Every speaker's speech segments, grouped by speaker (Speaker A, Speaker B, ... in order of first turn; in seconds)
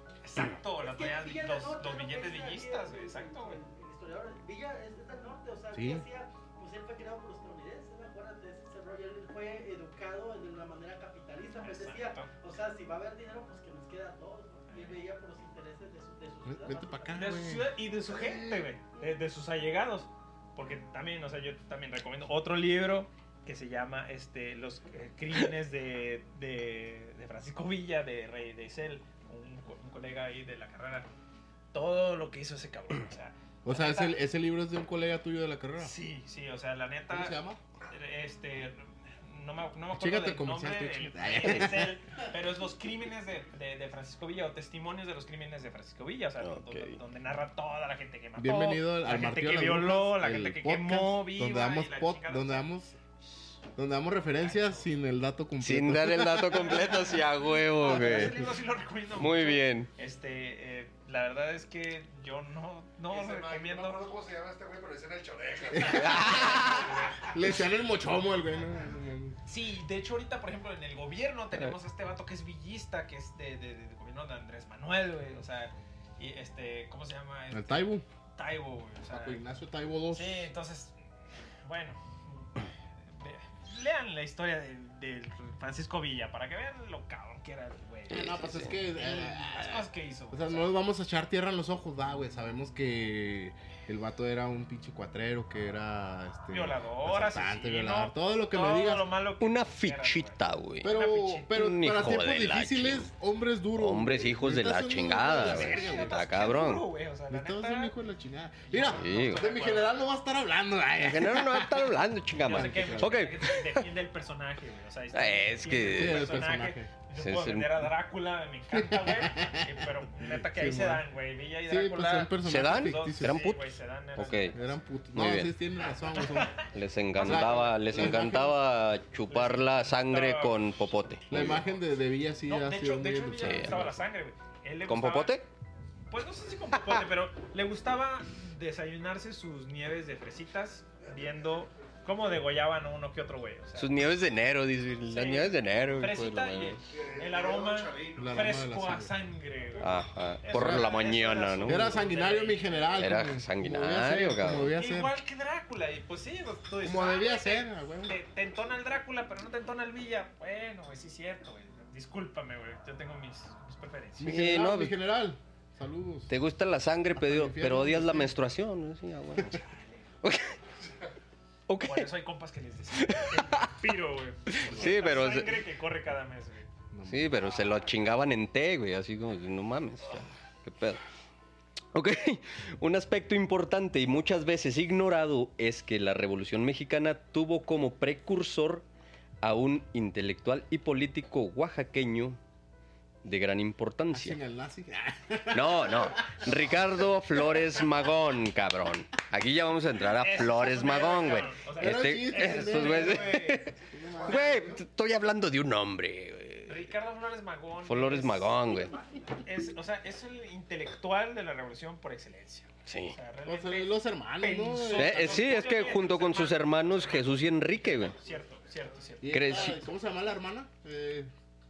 Speaker A: 0.2-3.6, 11.6-12.3, 14.7-15.0, 17.1-31.1, 31.7-34.2, 35.8-37.4, 37.9-52.7, 54.4-54.9, 56.5-64.1, 66.1-67.2, 69.5-79.4, 80.1-81.0, 81.6-90.7, 96.5-101.7, 105.3-108.0, 108.7-110.0, 112.4-124.8, 126.2-128.2, 129.3-130.6, 131.3-131.7, 132.5-135.4, 136.1-143.9, 145.1-153.0, 154.7-164.4, 169.5-169.8, 171.8-176.7, 200.0-203.8, 206.7-208.6, 209.4-219.7
Speaker B: 0.8-17.4, 208.6-209.4
Speaker C: 5.7-6.0, 16.4-18.6, 33.6-35.9, 37.1-37.6, 39.9-42.0, 48.4-53.0, 53.8-57.0, 57.9-58.4, 65.7-69.4, 77.5-78.0, 79.1-80.5, 88.1-99.1, 100.8-106.2, 107.3-111.9, 112.5-113.2, 115.8-116.9, 118.7-121.0, 121.7-123.4, 124.5-126.6, 127.2-128.6, 131.3-133.9, 148.2-149.1, 150.5-151.0, 151.7-155.1, 156.8-158.2, 164.2-166.3, 167.2-168.4, 174.6-175.0, 176.9-177.4, 194.1-197.6, 201.8-204.8, 213.4-215.5, 219.2-221.3
Speaker D: 46.4-47.0, 55.6-58.4, 59.2-59.9, 65.9-67.0, 88.1-88.8, 99.4-100.9, 101.5-103.1, 103.8-106.9, 108.9-109.5, 111.0-113.9, 115.1-116.4, 117.2-117.9, 122.4-124.6, 125.1-125.5, 126.7-131.6, 133.4-133.9, 134.9-135.5, 136.8-137.0, 143.7-146.8, 149.8-152.1, 153.0-154.7, 164.2-164.9, 166.3-169.6, 170.2-170.6, 171.7-172.1, 172.9-173.8, 174.5-175.6, 177.1-181.0, 181.9-188.8, 189.4-192.4, 193.2-194.4, 195.5-203.6, 204.2-206.8, 207.9-208.9, 212.9-213.2, 214.9-218.2, 219.3-219.8
Speaker E: 63.1-67.3, 141.0-141.9, 146.9-148.6